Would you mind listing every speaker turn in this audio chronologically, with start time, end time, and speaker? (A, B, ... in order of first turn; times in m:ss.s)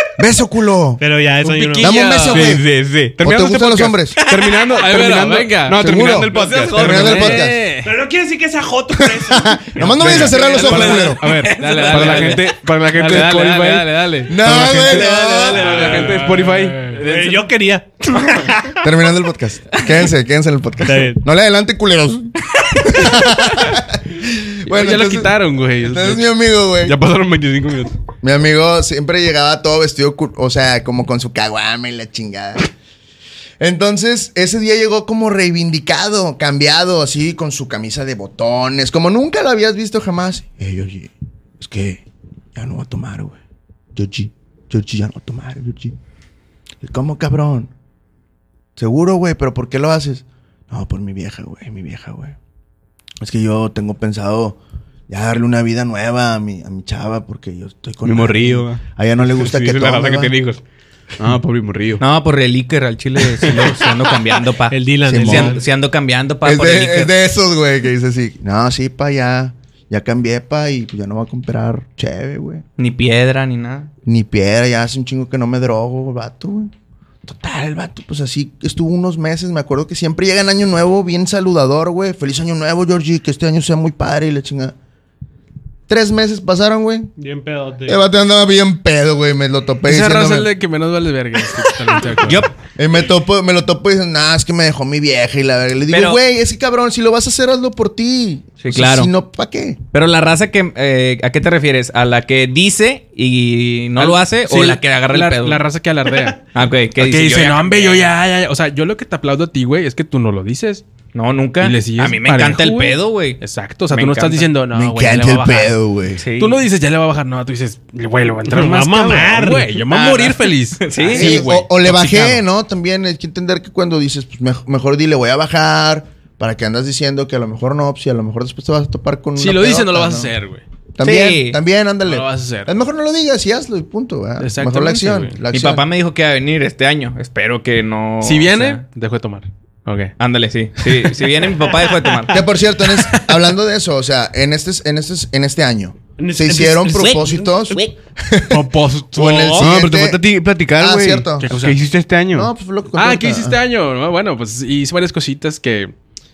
0:00.2-0:01.0 A
0:01.0-0:02.0 B
0:01.4-0:02.6 C
0:01.8-0:02.6 A
0:02.2-0:07.3 D
0:03.2-0:04.2 A
0:04.2-0:04.4 E
0:04.7-0:06.1 C
0:05.7-0:07.6 A
0:06.3-0:07.4 E
0:06.7-0:08.0 C
0:07.8-0:10.1 B
0:09.0-0:11.2 A
0:10.0-0:16.9 D
0:10.0-0:17.2 C
0:10.1-0:12.4 E
0:14.3-0:15.7 A
0:15.4-0:15.9 E
0:15.6-0:16.2 B
0:16.9-0:18.7 B
0:18.8-0:27.0 A
0:20.8-0:21.2 B
0:24.6-0:26.2 C
0:26.8-0:28.0 D
0:28.2-0:32.7 A
0:33.6-0:42.0 A
0:42.5-0:43.4 A
0:43.9-0:45.9 A
0:46.8-0:47.7 A
0:48.8-0:52.4 A
0:53.2-0:54.6 A
0:55.1-1:00.3 A
0:58.0-1:00.6 D
1:01.2-1:02.0 D
1:02.0-1:07.1 E
1:04.7-1:05.6 B
1:05.0-1:05.6 A
1:06.4-1:12.6 A
1:12.8-1:13.9 E
1:14.0-1:16.7 A
1:17.2-1:24.7 A
1:25.9-1:27.1 A
1:27.2-1:28.0 B
1:27.8-1:30.5 A
1:29.8-1:32.5 C
1:32.2-1:32.5 E
1:32.8-1:39.8 A
1:35.9-1:36.2 E
1:38.6-1:39.1 E
1:39.9-1:45.6 E
1:44.0-1:46.4 C
1:46.5-1:48.1 E
1:47.0-1:50.8 C
1:51.1-1:54.5 E
1:51.6-1:55.7 C
1:54.7-1:56.2 A
1:56.2-1:56.6 E
1:56.3-2:02.4 C
1:58.5-1:59.8 B
1:59.9-2:01.5 E
2:01.1-2:10.3 A
2:09.4-2:10.6 C
2:10.9-2:15.8 A
2:11.0-2:11.6 E
2:12.0-2:12.7 C
2:14.4-2:15.4 C
2:15.5-2:18.8 E
2:18.2-2:20.1 C
2:20.2-2:22.4 E
2:22.3-2:30.2 A
2:26.2-2:27.8 B
2:26.9-2:27.9 E
2:28.5-2:29.7 C
2:29.6-2:32.5 D
2:30.8-2:31.5 A
2:31.4-2:31.8 C
2:32.3-2:33.6 A
2:32.9-2:35.9 C